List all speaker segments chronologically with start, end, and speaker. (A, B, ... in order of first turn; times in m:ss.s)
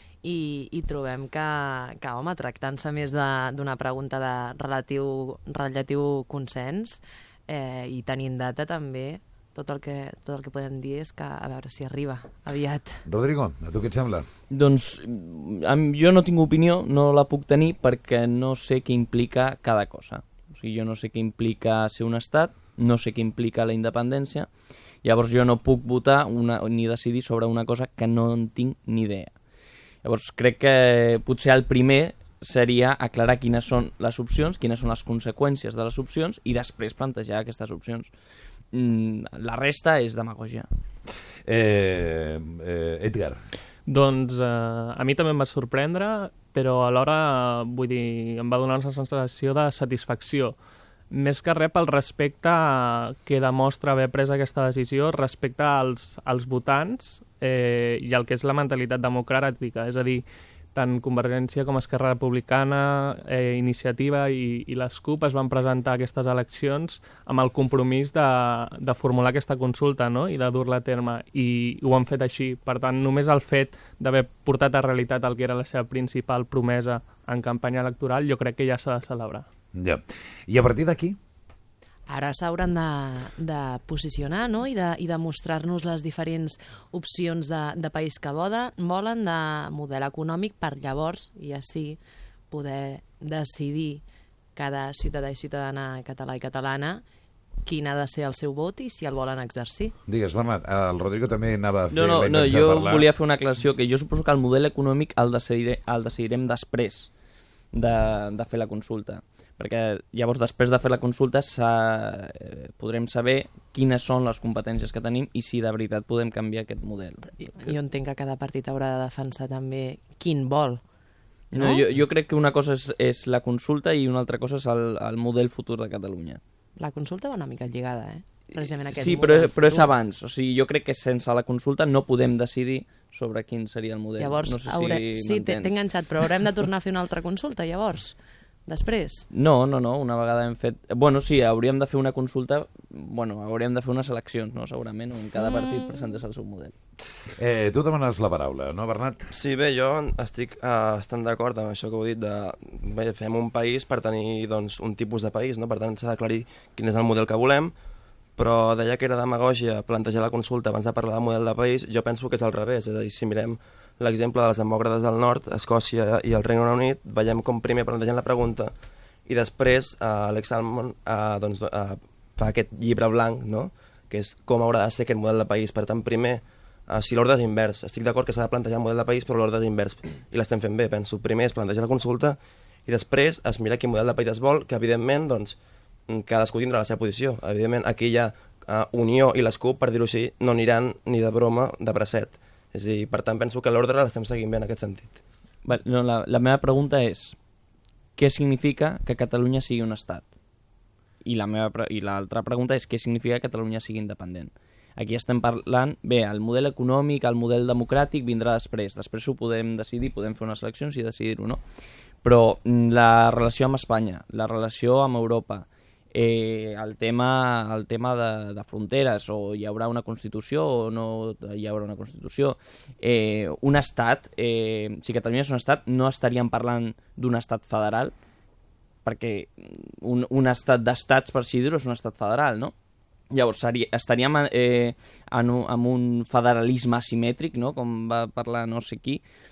0:00.2-0:13.0 A
0:13.0-0:14.3 B
0:14.5-0:24.5 C
0:25.0-0:29.4 C
0:30.0-0:38.1 C
0:38.7-0:40.7 C
0:41.4-0:43.4 B
0:43.9-0:50.6 D
0:51.1-1:19.5 D
1:19.8-1:21.2 B
1:22.1-1:34.0 A
1:34.6-1:37.0 A
1:37.6-1:40.0 A
1:40.1-1:43.1 B
1:41.9-1:47.1 C
1:47.7-1:57.7 C
1:57.5-2:00.8 A
2:01.5-2:06.4 C
2:01.6-2:01.9 A
2:06.8-2:09.9 A
2:08.6-2:15.8 C
2:14.2-2:19.3 A
2:19.3-2:26.7 C
2:27.2-2:29.3 B
2:29.3-2:37.7 E
2:38.4-2:48.7 E
2:49.3-3:05.6 E
3:06.1-3:15.2 E
3:15.6-3:17.4 C
3:18.2-3:20.3 C
3:21.2-3:31.6 C
3:32.2-3:48.1 C
3:49.0-3:52.7 C
3:53.3-3:59.2 C